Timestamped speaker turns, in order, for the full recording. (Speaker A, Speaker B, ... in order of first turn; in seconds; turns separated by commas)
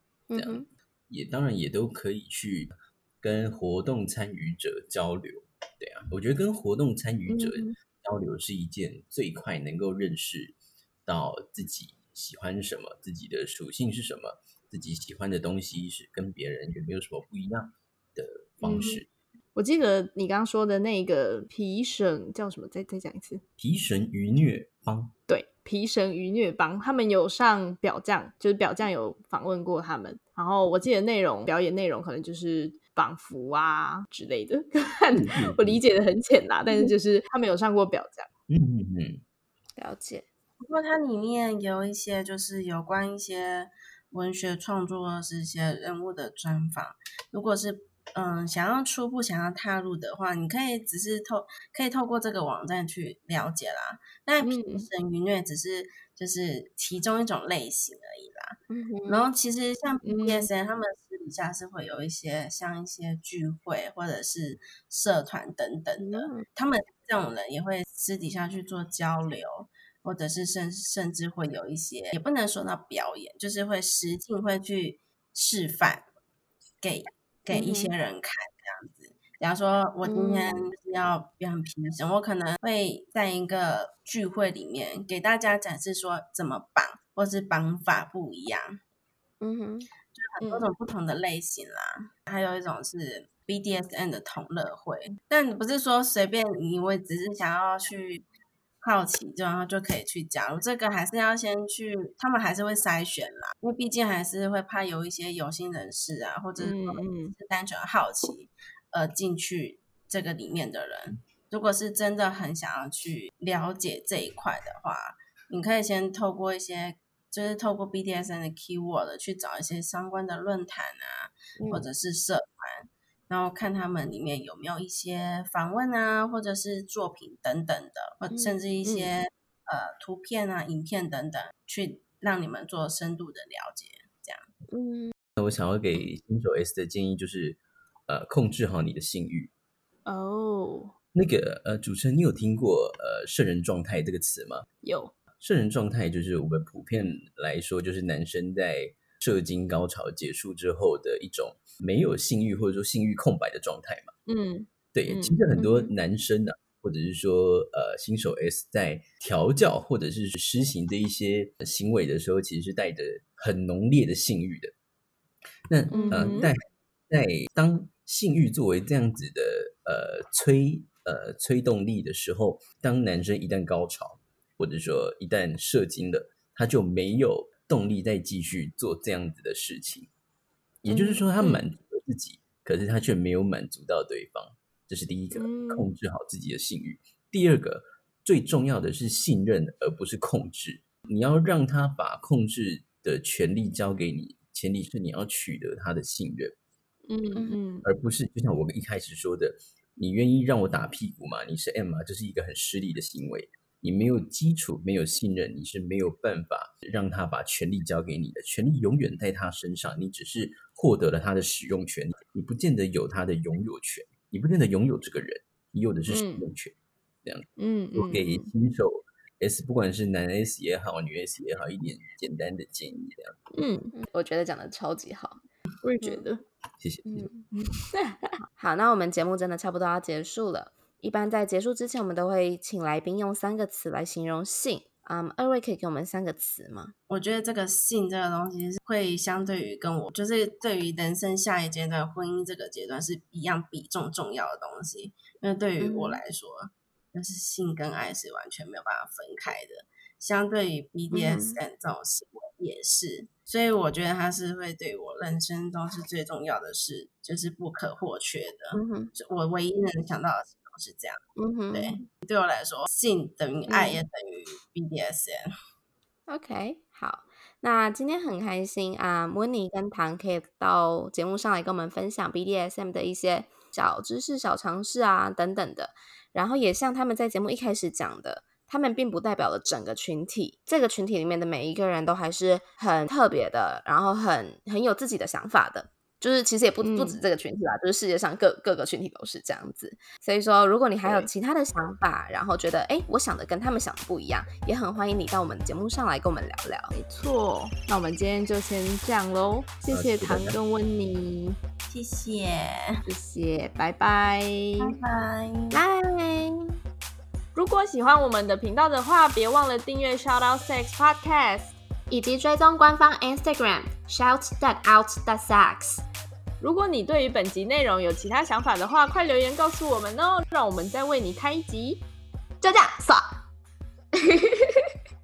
Speaker A: 0.3-0.7, Speaker B: 0.3-19.1, Speaker C: 7.3-7.8, Speaker C: 18.6-19.0, Speaker C: 19.5-23.4, Speaker B: 23.6-25.1, Speaker C: 25.3-38.3, Speaker B: 35.1-35.8, Speaker B: 38.5-39.2, Speaker A: 39.8-40.2, Speaker D: 40.6-76.1, Speaker C: 54.4-54.9, Speaker A: 58.7-59.3, Speaker C: 60.0-60.5, Speaker A: 66.0-66.4, Speaker D: 76.8-88.8, Speaker A: 77.5-77.9, Speaker A: 80.0-80.7, Speaker A: 89.4-89.9, Speaker D: 90.1-98.2, Speaker C: 90.4-90.7, Speaker D: 98.8-134.4, Speaker C: 106.6-107.3, Speaker A: 121.6-121.8, Speaker A: 128.3-129.1, Speaker A: 134.7-135.1, Speaker B: 135.4-139.5, Speaker C: 140.1-140.9, Speaker B: 141.1-144.7, Speaker C: 144.8-145.1, Speaker B: 145.4-154.1, Speaker C: 154.3-155.4, Speaker B: 154.9-164.7, Speaker B: 165.7-180.1, Speaker A: 165.9-166.4, Speaker C: 165.9-166.5, Speaker B: 180.8-196.5, Speaker C: 180.9-181.6, Speaker C: 185.3-185.9, Speaker C: 197.1-197.8, Speaker B: 197.8-223.4, Speaker C: 216.1-216.5, Speaker C: 217.6-218.5, Speaker C: 223.5-223.9, Speaker A: 223.9-225.4, Speaker C: 225.8-226.4, Speaker B: 226.8-227.3, Speaker C: 227.5-228.4, Speaker A: 228.6-236.9, Speaker D: 237.1-265.4, Speaker A: 245.8-246.2, Speaker A: 251.1-251.6, Speaker A: 258.7-259.1, Speaker A: 261.4-262.1, Speaker A: 263.7-264.0, Speaker A: 266.3-296.9, Speaker C: 286.8-287.2, Speaker C: 291.0-291.3, Speaker C: 296.9-301.6, Speaker B: 299.9-300.6, Speaker D: 301.9-303.0, Speaker C: 303.1-304.9, Speaker D: 304.8-305.8, Speaker A: 305.7-306.8, Speaker C: 307.5-311.7, Speaker E: 312.1-316.0, Speaker C: 316.6-322.0, Speaker E: 322.6-323.4, Speaker E: 324.2-324.7